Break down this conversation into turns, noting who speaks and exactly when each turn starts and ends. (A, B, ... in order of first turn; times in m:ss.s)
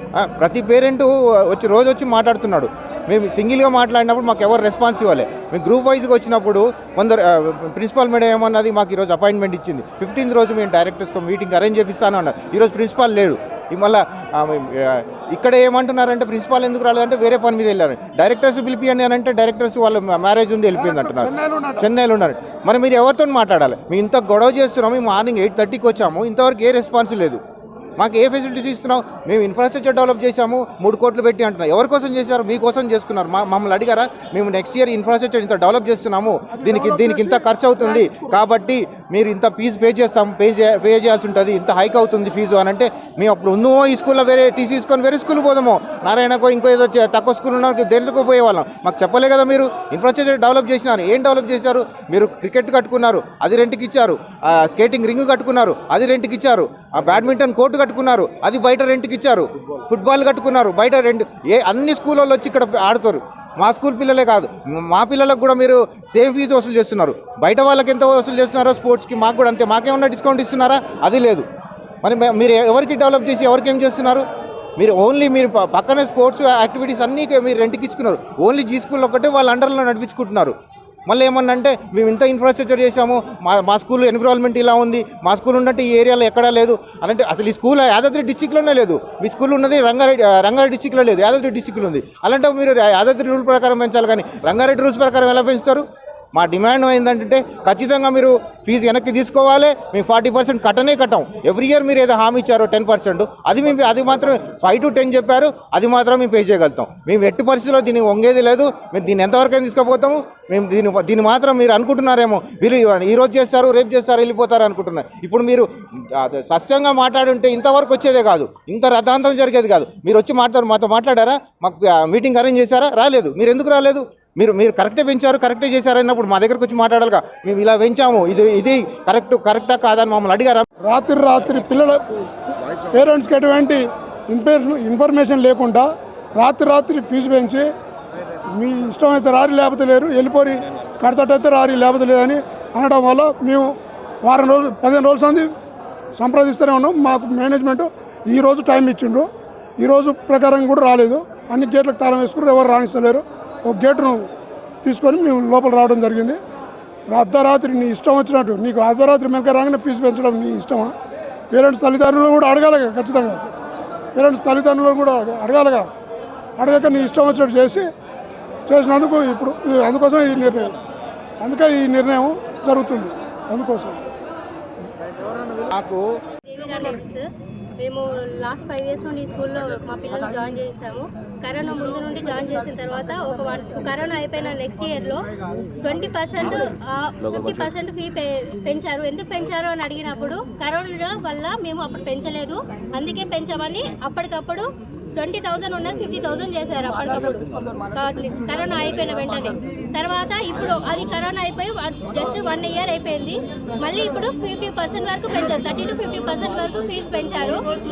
0:00.2-0:27.4 A
0:20.8-0:21.8 B
0:28.0-1:11.4 A
0:36.5-0:38.4 B
1:12.0-1:14.2 A
1:14.8-1:20.6 A
1:21.1-2:10.6 A
2:10.9-2:12.2 B
2:12.9-2:15.9 B
2:16.4-2:17.7 B
2:18.5-2:23.7 B
2:24.2-2:25.5 B
2:26.2-2:29.3 B
2:29.8-2:34.3 B
2:34.8-2:36.4 B
2:37.1-2:40.9 B
2:41.5-2:43.4 B
2:44.2-2:45.9 B
2:46.6-2:47.9 B
2:48.7-2:50.7 B
2:51.4-2:54.0 B
2:55.7-2:56.0 A
2:56.5-2:57.2 C
2:57.8-3:05.2 C
3:05.8-3:27.7 C